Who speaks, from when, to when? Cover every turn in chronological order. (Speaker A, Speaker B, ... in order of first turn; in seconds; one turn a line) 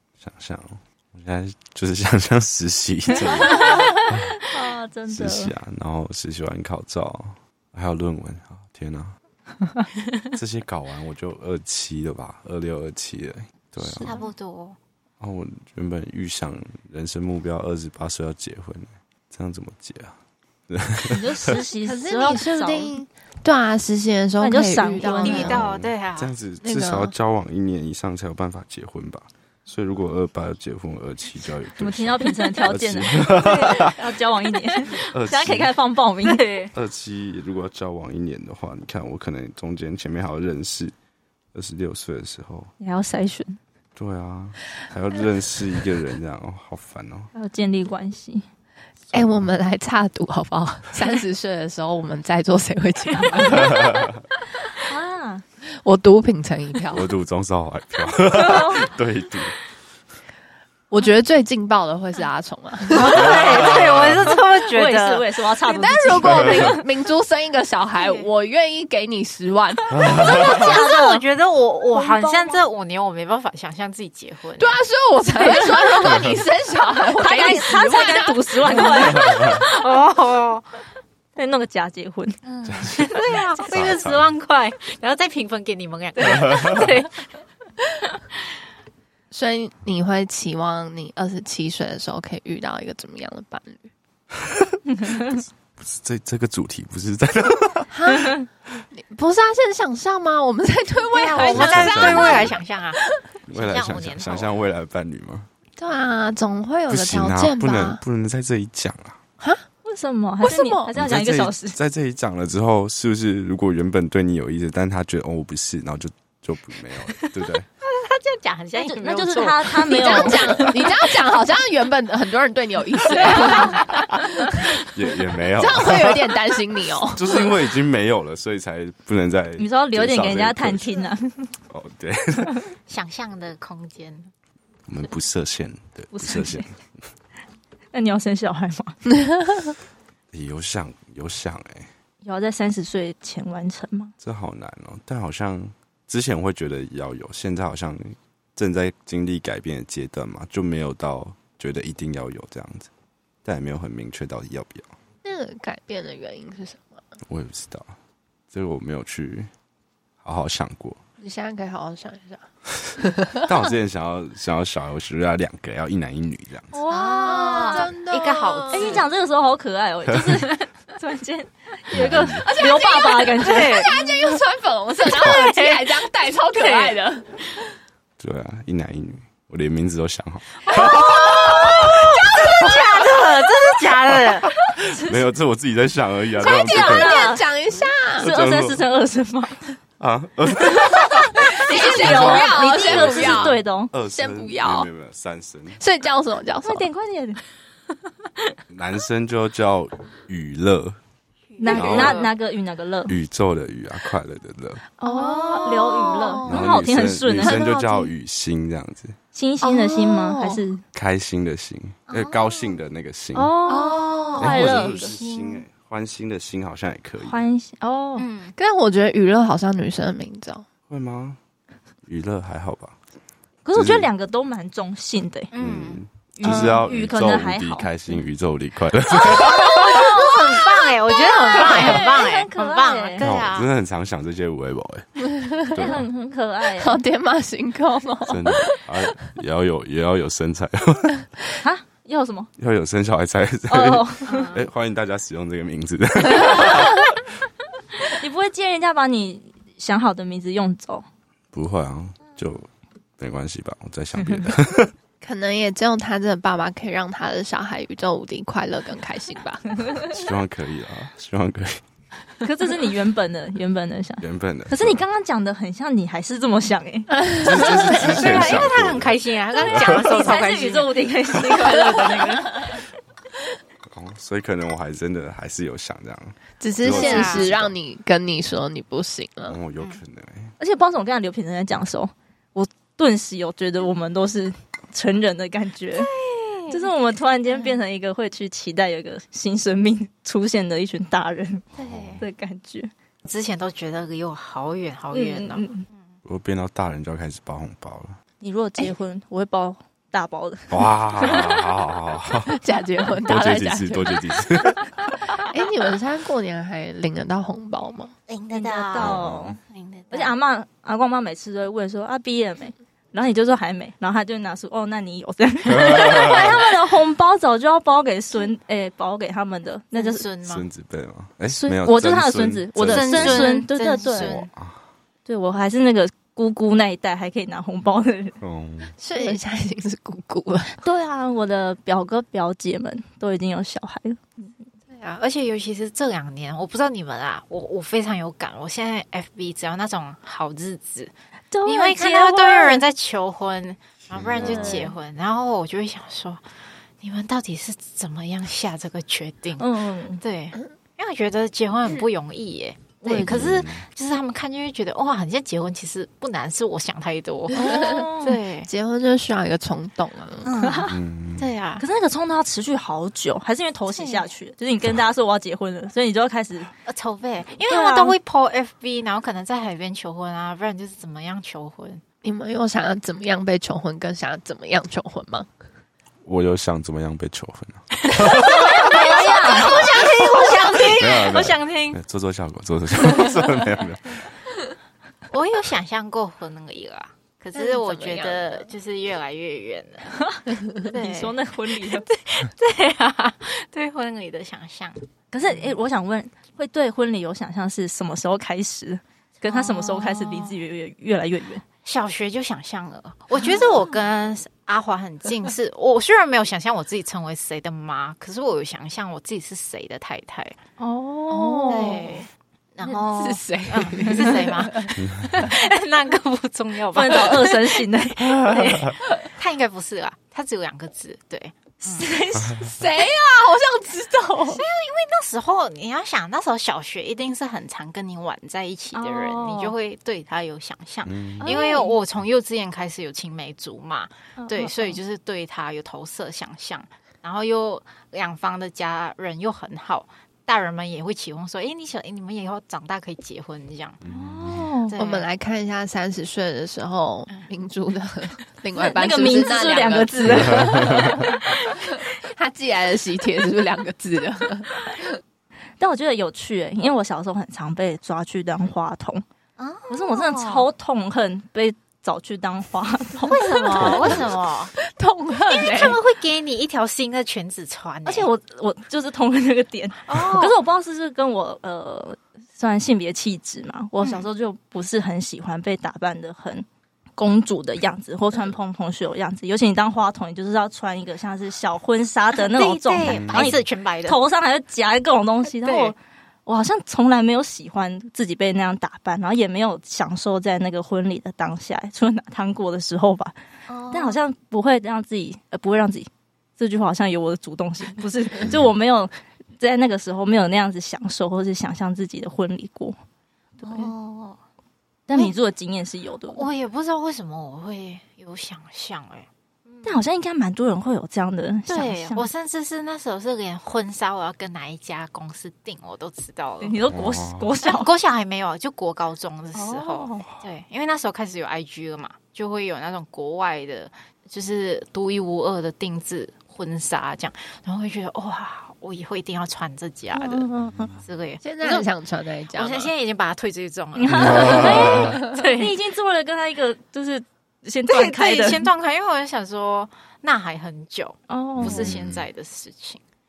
Speaker A: 0.2-4.4
Speaker B: 3.1-5.5
Speaker A: 5.1-9.2
Speaker A: 10.3-14.1
Speaker B: 13.8-14.3
Speaker C: 14.0-14.8
Speaker A: 15.2-20.2
Speaker A: 20.7-21.6
Speaker B: 21.1-22.9
Speaker D: 21.8-25.7
Speaker B: 24.4-25.6
Speaker C: 24.9-26.3
Speaker A: 25.5-34.0
Speaker D: 26.6-27.1
Speaker B: 31.8-36.4
Speaker A: 34.9-35.7
Speaker C: 36.2-36.7
Speaker A: 36.7-40.9
Speaker A: 41.5-42.7
Speaker B: 42.8-43.6
Speaker A: 44.0-47.3
Speaker B: 47.3-48.5
Speaker D: 49.1-54.1
Speaker A: 49.1-49.4
Speaker A: 53.5-54.2
Speaker B: 54.8-55.4
Speaker D: 55.8-57.1
Speaker A: 56.9-59.6
Speaker B: 58.4-58.8
Speaker D: 60.9-63.7
Speaker C: 62.9-65.3
Speaker B: 62.9-66.8
Speaker D: 65.6-70.0
Speaker C: 68.0-68.3
Speaker A: 69.9-70.7
Speaker C: 70.1-74.8
Speaker B: 70.1-71.2
Speaker B: 71.9-72.6
Speaker D: 74.6-79.2
Speaker B: 77.2-79.6
Speaker C: 78.7-80.8
Speaker B: 81.4-82.4
Speaker C: 82.5-87.3
Speaker A: 82.7-84.3
Speaker A: 86.5-86.8
Speaker B: 86.6-86.9
Speaker D: 89.3-93.9
Speaker A: 94.4-97.9
Speaker B: 95.0-95.4
Speaker D: 97.9-102.6
Speaker C: 101.1-104.6
Speaker A: 101.4-102.6
Speaker A: 103.5-105.5
Speaker D: 105.8-108.0
Speaker A: 106.9-109.2
Speaker B: 109.8-111.8
Speaker D: 110.4-111.0
Speaker A: 111.0-117.7
Speaker C: 117.2-121.2
Speaker B: 118.8-120.6
Speaker D: 119.9-124.8
Speaker C: 123.2-124.0
Speaker A: 124.8-126.4
Speaker D: 125.5-127.4
Speaker A: 127.0-130.9
Speaker B: 129.6-131.5
Speaker A: 131.7-132.6
Speaker C: 132.9-134.3
Speaker A: 134.9-137.0
Speaker B: 136.1-136.7
Speaker B: 137.9-139.0
Speaker D: 139.2-139.8
Speaker A: 140.3-141.9
Speaker B: 142.2-144.1
Speaker A: 144.2-152.9
Speaker A: 153.4-154.9
Speaker D: 155.2-157.0
Speaker A: 157.3-157.9
Speaker A: 158.5-159.5
Speaker A: 160.2-161.0
Speaker D: 161.2-162.4
Speaker D: 163.0-163.5
Speaker A: 163.4-166.7
Speaker B: 166.7-167.9
Speaker C: 166.9-169.1
Speaker D: 166.9-169.0
Speaker B: 168.7-173.9
Speaker A: 170.1-170.4
Speaker A: 171.9-172.5
Speaker D: 172.4-177.3
Speaker C: 173.4-174.0
Speaker C: 175.0-177.0
Speaker A: 178.2-182.0
Speaker C: 180.7-184.5
Speaker D: 180.8-183.1
Speaker A: 184.1-187.3
Speaker B: 184.8-185.2
Speaker D: 186.4-188.3
Speaker B: 186.5-187.4
Speaker A: 188.1-188.8
Speaker B: 188.2-189.7
Speaker A: 190.0-195.8
Speaker D: 191.4-194.9
Speaker B: 191.4-193.9
Speaker D: 195.8-196.9
Speaker B: 196.6-197.4
Speaker A: 198.7-201.0
Speaker C: 201.6-202.3
Speaker B: 201.6-203.2
Speaker A: 201.7-202.3
Speaker A: 203.1-204.8
Speaker B: 205.0-207.8
Speaker D: 205.1-206.7
Speaker C: 205.1-206.5
Speaker A: 206.5-209.2
Speaker D: 207.6-207.8
Speaker B: 209.3-210.8
Speaker D: 209.6-210.6
Speaker A: 210.9-213.6
Speaker C: 212.1-212.8
Speaker B: 213.3-215.2
Speaker C: 213.7-215.7
Speaker D: 213.7-214.4
Speaker A: 214.4-217.4
Speaker B: 217.2-218.3
Speaker C: 218.2-218.6
Speaker D: 218.6-220.7
Speaker A: 220.9-221.4
Speaker A: 222.1-223.0
Speaker B: 223.7-225.5
Speaker A: 223.7-224.1
Speaker C: 225.5-226.6
Speaker A: 225.6-230.5
Speaker B: 226.4-227.9
Speaker C: 229.1-233.7
Speaker B: 231.5-233.2
Speaker A: 233.2-236.0
Speaker D: 235.2-235.9
Speaker B: 235.8-237.0
Speaker D: 236.8-239.1
Speaker A: 238.3-241.2
Speaker B: 241.6-242.5
Speaker A: 242.6-247.3
Speaker B: 243.7-244.5
Speaker C: 244.3-244.7
Speaker B: 246.5-246.8
Speaker B: 248.0-251.1
Speaker A: 251.5-254.9
Speaker D: 255.2-259.8
Speaker A: 260.1-261.8
Speaker B: 262.4-267.7
Speaker A: 264.2-265.0
Speaker A: 267.3-270.1
Speaker C: 267.4-271.0
Speaker B: 269.7-272.8
Speaker C: 271.5-272.1
Speaker A: 273.9-277.8
Speaker D: 276.6-279.6
Speaker C: 276.9-277.5
Speaker A: 279.5-280.5
Speaker B: 280.6-286.1
Speaker C: 285.9-286.9
Speaker B: 286.7-291.6
Speaker C: 287.5-287.8
Speaker A: 291.8-292.2
Speaker C: 291.8-292.2
Speaker B: 292.2-292.9
Speaker C: 293.2-296.1
Speaker B: 295.1-295.9
Speaker A: 296.2-298.1
Speaker B: 298.4-301.5
Speaker A: 300.7-302.6
Speaker D: 302.5-304.7
Speaker A: 303.2-305.1
Speaker D: 305.3-308.1
Speaker C: 308.3-310.3
Speaker B: 308.5-309.6
Speaker A: 309.0-309.6
Speaker B: 310.1-320.3
Speaker A: 315.7-316.6
Speaker C: 319.9-320.6
Speaker A: 320.5-323.6
Speaker B: 321.5-324.5
Speaker C: 322.8-324.5
Speaker A: 324.1-324.8
Speaker B: 325.3-328.4
Speaker A: 328.4-328.9
Speaker D: 329.0-330.8
Speaker B: 330.8-334.5
Speaker C: 335.0-341.1
Speaker B: 341.5-342.8
Speaker C: 341.6-346.5
Speaker A: 344.1-344.8
Speaker B: 344.4-344.9
Speaker C: 347.0-349.7
Speaker B: 349.6-350.2
Speaker C: 350.2-358.7
Speaker B: 353.0-353.4
Speaker A: 353.3-353.9
Speaker B: 357.5-358.4
Speaker D: 357.6-358.0
Speaker D: 358.7-360.5
Speaker C: 360.4-361.8
Speaker B: 360.6-360.9
Speaker A: 360.9-361.5
Speaker B: 361.8-366.7
Speaker C: 363.9-364.3
Speaker C: 366.9-372.0
Speaker B: 367.7-368.2
Speaker D: 372.2-375.5
Speaker A: 376.2-378.9
Speaker C: 378.4-381.5
Speaker B: 378.4-382.0
Speaker A: 380.8-384.3
Speaker C: 385.3-390.2
Speaker D: 387.6-388.7
Speaker B: 390.1-392.1
Speaker C: 390.8-395.7
Speaker B: 395.3-401.6
Speaker C: 399.5-400.6
Speaker C: 401.9-410.6
Speaker B: 410.8-412.1
Speaker D: 411.3-412.1
Speaker C: 411.7-417.8
Speaker D: 412.9-415.5
Speaker A: 415.0-415.5
Speaker B: 416.9-418.9
Speaker A: 418.2-419.0
Speaker C: 419.2-422.1
Speaker B: 421.8-422.8
Speaker A: 422.4-422.7
Speaker D: 422.6-424.6
Speaker C: 424.4-444.0
Speaker B: 428.9-429.7
Speaker A: 431.1-431.5
Speaker B: 431.4-432.0
Speaker B: 434.4-435.0
Speaker A: 444.0-444.6
Speaker B: 444.1-445.0
Speaker C: 444.9-445.3
Speaker D: 445.0-455.2
Speaker B: 448.8-451.4
Speaker B: 455.8-459.2
Speaker C: 459.6-460.7
Speaker B: 459.9-464.2
Speaker C: 463.2-464.7
Speaker D: 464.8-466.0
Speaker C: 465.5-468.3
Speaker B: 468.1-476.7
Speaker C: 470.1-470.6
Speaker C: 474.0-474.3
Speaker B: 477.2-493.4
Speaker C: 482.4-484.2
Speaker A: 483.1-483.6
Speaker C: 485.6-485.9
Speaker C: 493.7-494.2
Speaker B: 493.9-503.0
Speaker B: 503.6-503.9
Speaker C: 503.6-504.4
Speaker B: 505.1-506.5
Speaker C: 506.3-510.0
Speaker B: 509.8-512.3
Speaker C: 511.7-516.8
Speaker B: 516.6-517.9
Speaker A: 516.9-517.5
Speaker C: 517.6-530.5
Speaker B: 519.5-520.3
Speaker B: 530.1-531.0
Speaker C: 531.0-531.9
Speaker D: 531.4-532.9
Speaker C: 532.5-535.7
Speaker B: 534.0-538.7
Speaker A: 534.2-535.1
Speaker D: 535.0-535.4
Speaker C: 537.9-543.0
Speaker B: 541.3-541.9
Speaker A: 541.6-542.3